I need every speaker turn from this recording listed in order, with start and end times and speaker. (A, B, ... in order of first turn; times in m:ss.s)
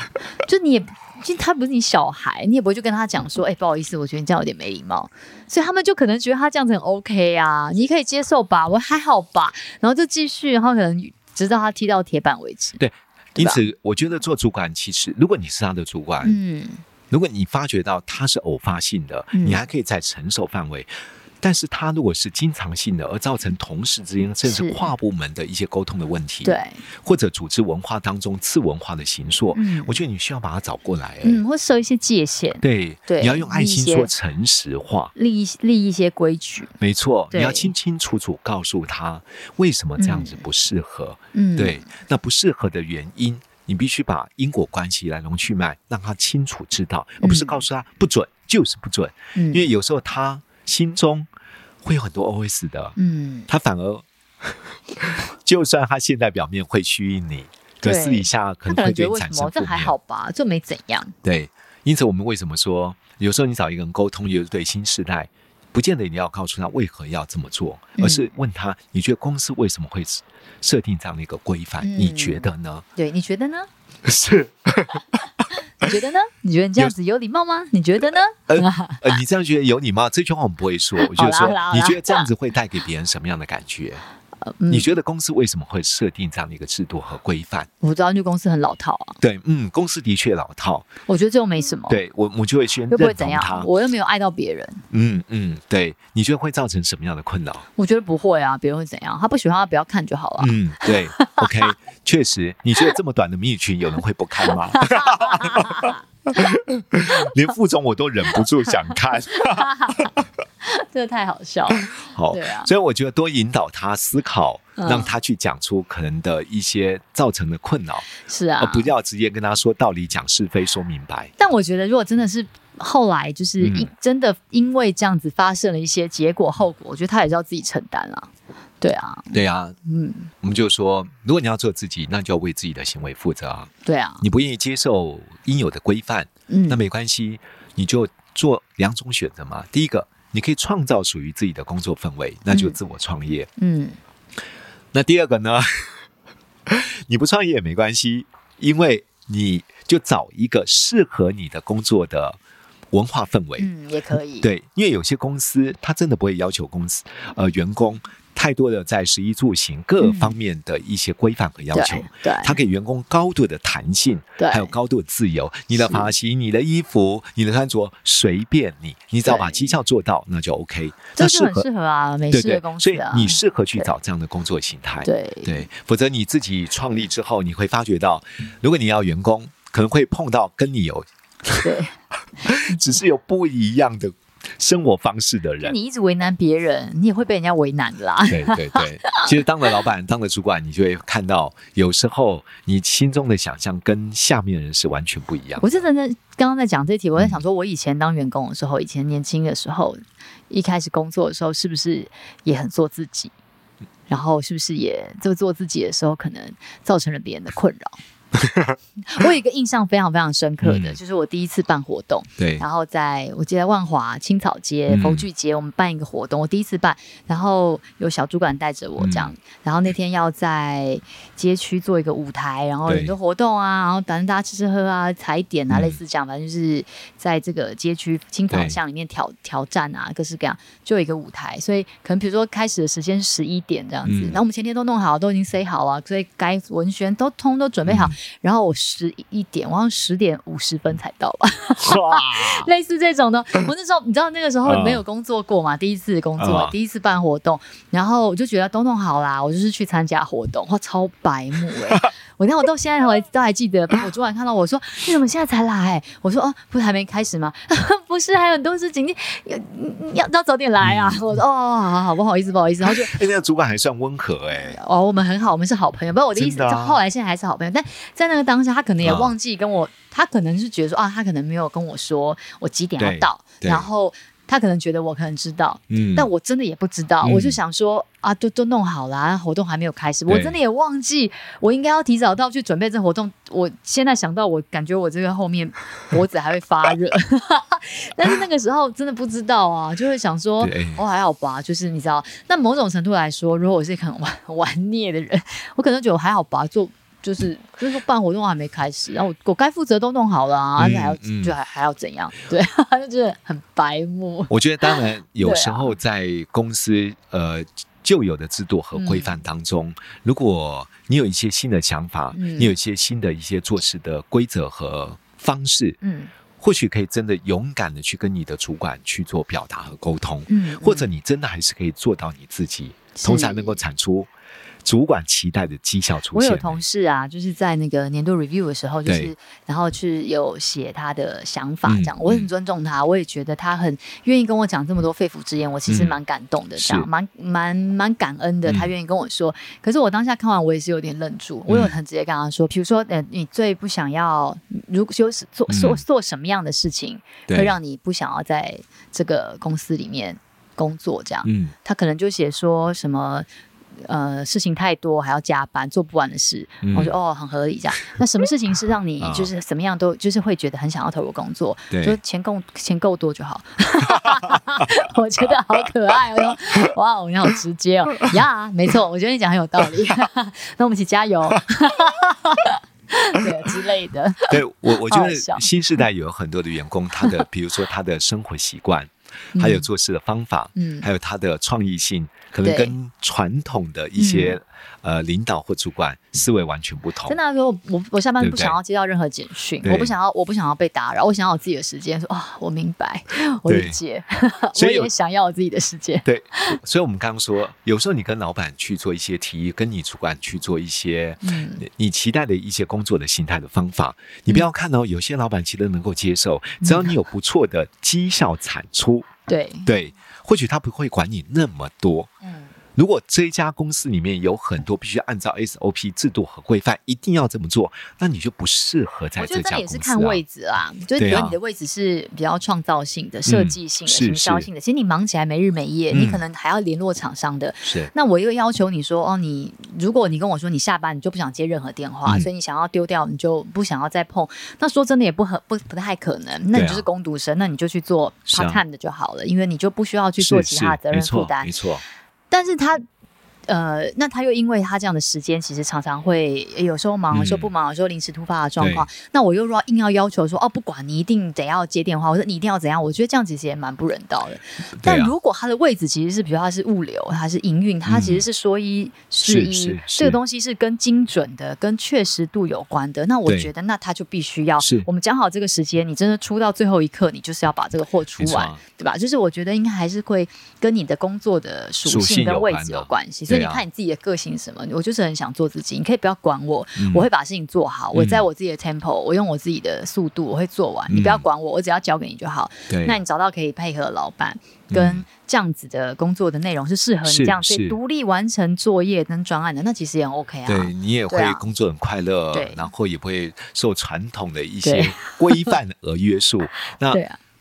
0:00.4-0:12.8 A
0:12.8-0:16.4 B
0:13.4-0:13.6 A
0:16.2-0:16.8 A
0:17.1-0:31.4 B
0:19.3-0:19.6 A
0:24.4-0:24.9 A
0:26.4-0:26.8 A
0:29.5-0:30.0 A
0:31.2-0:34.1 A
0:32.6-0:35.1 B
0:35.2-0:36.7 A
0:36.8-0:51.3 B
0:37.3-0:37.7 A
0:40.0-0:40.4 A
0:41.3-0:41.9 A
0:47.2-0:47.6 A
0:49.4-0:49.7 A
0:51.8-0:53.0 B
0:53.0-0:53.5 A
0:53.5-0:54.0 B
0:55.0-1:00.0 B
0:57.8-1:01.1 A
1:01.2-1:12.8 B
1:08.0-1:08.3 A
1:11.8-1:13.7 A
1:14.0-1:15.4 B
1:15.8-1:19.0 A
1:18.5-1:24.0 B
1:21.0-1:22.3 A
1:24.4-1:24.9 A
1:24.7-1:27.7 B
1:27.8-1:29.2 A
1:29.2-1:30.9 B
1:31.1-1:32.0 A
1:31.9-1:33.7 B
1:32.9-1:34.8 A
1:34.9-1:37.7 B
1:37.8-1:41.7 A
1:40.4-1:50.2 B
1:44.5-1:46.0 A
1:49.4-1:50.1 A
1:50.6-1:52.7 A
1:51.8-2:01.3 B
1:54.8-1:55.1 A
1:58.2-1:58.9 A
2:01.4-2:08.3 A
2:03.6-2:03.9 B
2:08.8-2:10.3 A
2:09.3-2:09.8 B
2:10.4-2:23.5 B
2:13.8-2:14.2 A
2:16.5-2:16.8 A
2:22.5-2:22.8 A
2:23.6-2:24.0 A
2:24.9-2:26.0 B
2:26.7-2:32.4 B
2:32.9-2:33.7 B
2:33.6-2:34.5 A
2:34.4-2:51.7 B
2:40.0-2:40.4 A
2:41.7-2:42.6 A
2:44.4-2:44.7 A
2:45.8-2:46.1 A
2:49.2-2:49.7 A
2:51.2-2:53.9 A
2:52.3-3:01.7 B
2:55.0-2:55.6 A
3:01.6-3:02.0 A
3:02.4-3:05.8 B
3:05.6-3:09.3 A
3:08.3-3:15.8 B
3:15.6-3:23.3 A
3:24.1-3:28.0 A
3:28.4-3:28.8 B
3:29.1-4:23.2 A
3:30.6-3:31.0 B
3:32.4-3:32.6 B
3:34.9-3:35.3 B
3:39.0-3:39.3 B
3:42.9-3:43.2 B
3:45.7-3:46.0 B
3:48.5-3:48.8 B
3:54.0-3:54.4 B
3:57.9-3:58.2 B
4:01.8-4:02.7 B
4:04.6-4:05.0 B
4:06.4-4:06.8 B
4:20.8-4:21.3 B
4:22.8-4:24.8 B
4:24.5-5:06.0 A
4:26.4-4:27.0 B
4:29.0-4:29.3 B
4:33.0-4:33.9 B
4:35.9-4:36.3 B
4:37.2-4:37.6 B
4:40.3-4:40.6 B
4:50.6-4:51.0 B
5:00.8-5:01.6 B
5:04.5-5:16.0 B
5:08.9-5:09.4 A
5:12.3-5:12.7 A
5:16.0-5:16.3 A
5:16.6-5:24.3 B
5:20.5-5:21.1 A
5:23.2-5:23.8 A
5:24.8-5:26.8 B
5:26.3-5:53.5 A
5:29.1-5:29.3 B
5:31.8-5:32.5 B
5:35.9-5:36.2 B
5:36.8-5:37.1 B
5:38.7-5:38.9 B
5:41.7-5:42.0 B
5:45.7-5:46.0 B
5:47.5-5:47.8 B
5:51.4-5:51.7 B
5:54.0-6:15.7 A
5:56.8-5:57.2 B
5:59.2-5:59.5 B
6:01.9-6:02.2 B
6:14.5-6:27.4 B
6:19.6-6:19.9 A
6:20.8-6:21.1 A
6:22.6-6:23.0 A
6:24.2-6:24.6 A
6:27.3-6:36.8 A
6:28.4-6:28.8 B
6:29.8-6:30.1 B
6:33.7-6:34.0 B
6:34.8-6:35.1 B
6:36.2-6:49.3 B
6:41.4-6:41.8 A
6:46.8-6:47.1 A
6:49.5-6:49.9 A
6:49.8-6:52.3 B
6:52.4-6:52.7 A
6:53.0-7:00.4 B
6:59.4-7:21.7 A
7:01.2-7:01.6 B
7:03.5-7:04.7 B
7:06.1-7:06.4 B
7:07.8-7:08.1 B
7:16.7-7:17.1 B
7:18.5-7:18.8 B
7:20.4-7:22.0 B
7:22.5-7:23.0 A
7:23.7-8:11.6 A
7:27.3-7:27.7 B
7:28.8-7:29.1 B
7:35.0-7:35.3 B
7:38.1-7:38.4 B
7:39.4-7:40.4 B
7:43.5-7:43.7 B
7:44.8-7:45.1 B
7:48.4-7:48.8 B
7:52.0-7:53.8 B
7:57.0-7:57.3 B
7:58.1-7:58.4 B
8:01.1-8:01.4 B
8:02.9-8:03.2 B
8:04.9-8:05.3 B
8:07.2-8:08.0 B
8:10.7-8:17.2 B
8:12.5-8:12.9 A
8:14.8-8:15.8 A
8:17.1-8:17.4 A